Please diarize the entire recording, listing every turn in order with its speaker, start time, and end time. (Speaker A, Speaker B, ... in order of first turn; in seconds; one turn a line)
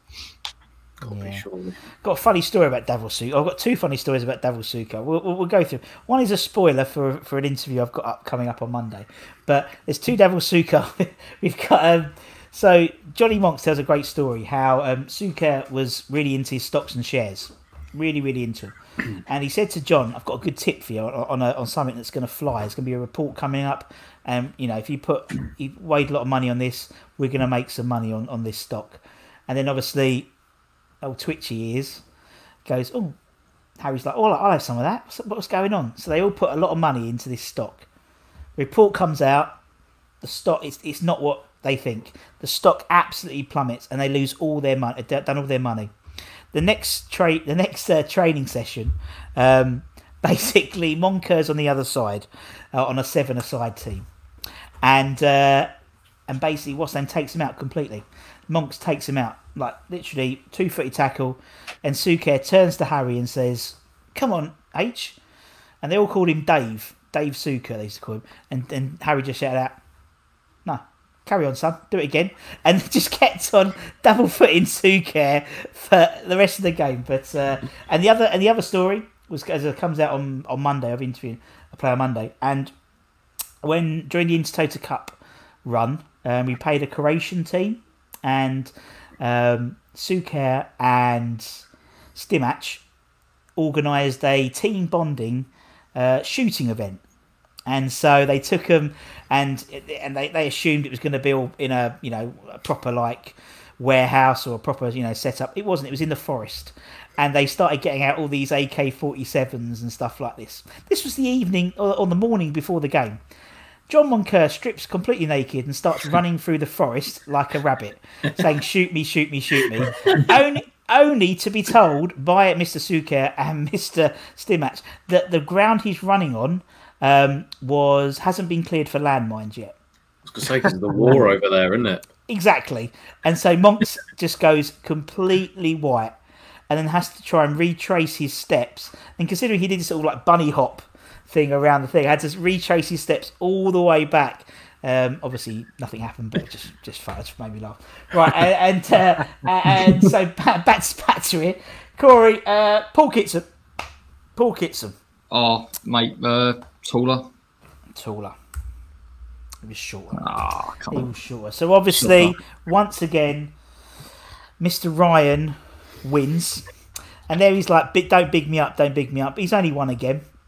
Speaker A: 1.0-1.4
Speaker B: 1.0-1.8
Speaker A: 2.0-18.7
Speaker A: 19.2-30.3
Speaker A: 31.0-32.0
Speaker A: 32.6-33.1
Speaker A: 33.8-37.8
Speaker A: 38.6-39.6
Speaker A: 40.2-45.9
Speaker A: 46.5-54.1
Speaker A: 54.8-55.7
Speaker A: 56.3-65.2
Speaker A: 65.8-69.8
Speaker A: 70.6-82.7
Speaker A: 83.6-91.6
Speaker A: 92.1-92.8
Speaker A: 93.6-97.0
Speaker A: 97.7-113.2
Speaker A: 113.9-129.7
Speaker B: 130.2-132.1
Speaker A: 132.3-136.2
Speaker A: 136.7-153.5
Speaker A: 154.3-154.9
Speaker C: 155.3-157.3
Speaker A: 157.9-158.3
Speaker A: 159.6-160.2
Speaker C: 160.1-161.1
Speaker A: 160.9-163.5
Speaker A: 164.6-166.7
Speaker A: 167.3-170.2